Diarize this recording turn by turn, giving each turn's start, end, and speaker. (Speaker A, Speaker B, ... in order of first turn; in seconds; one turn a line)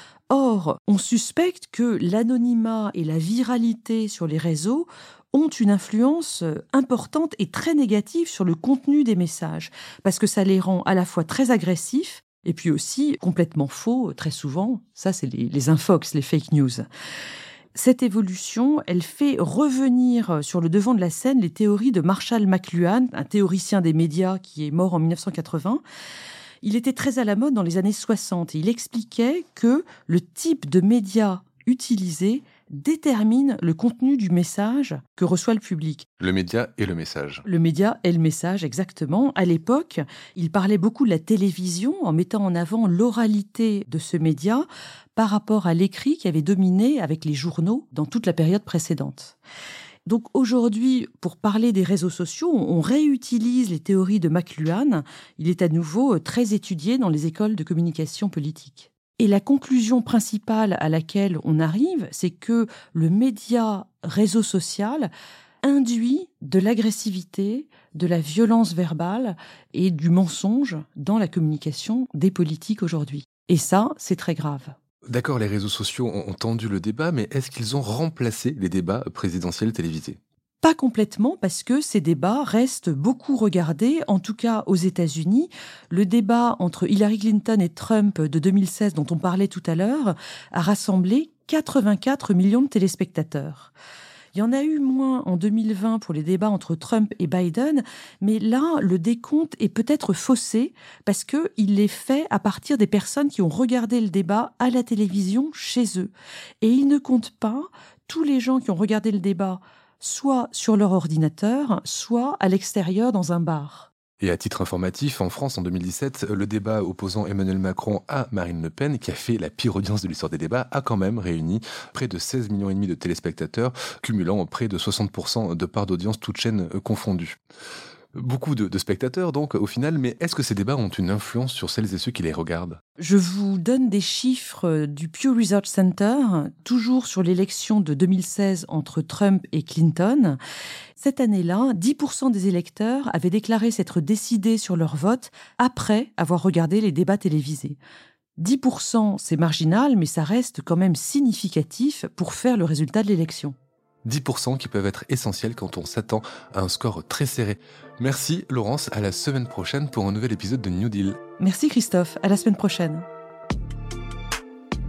Speaker A: 0.3-16.9
Speaker A: 17.7-25.8
Speaker A: 26.6-36.1
Speaker B: 36.2-37.4
Speaker A: 37.5-49.4
Speaker A: 50.1-65.1
Speaker A: 65.6-74.8
Speaker B: 75.1-80.2
Speaker A: 80.6-93.7
Speaker A: 94.3-113.9
Speaker B: 114.2-127.4
Speaker B: 128.1-132.8
Speaker A: 133.0-140.4
Speaker A: 141.0-147.8
Speaker A: 148.4-153.6
Speaker B: 154.1-161.2
Speaker A: 161.4-163.1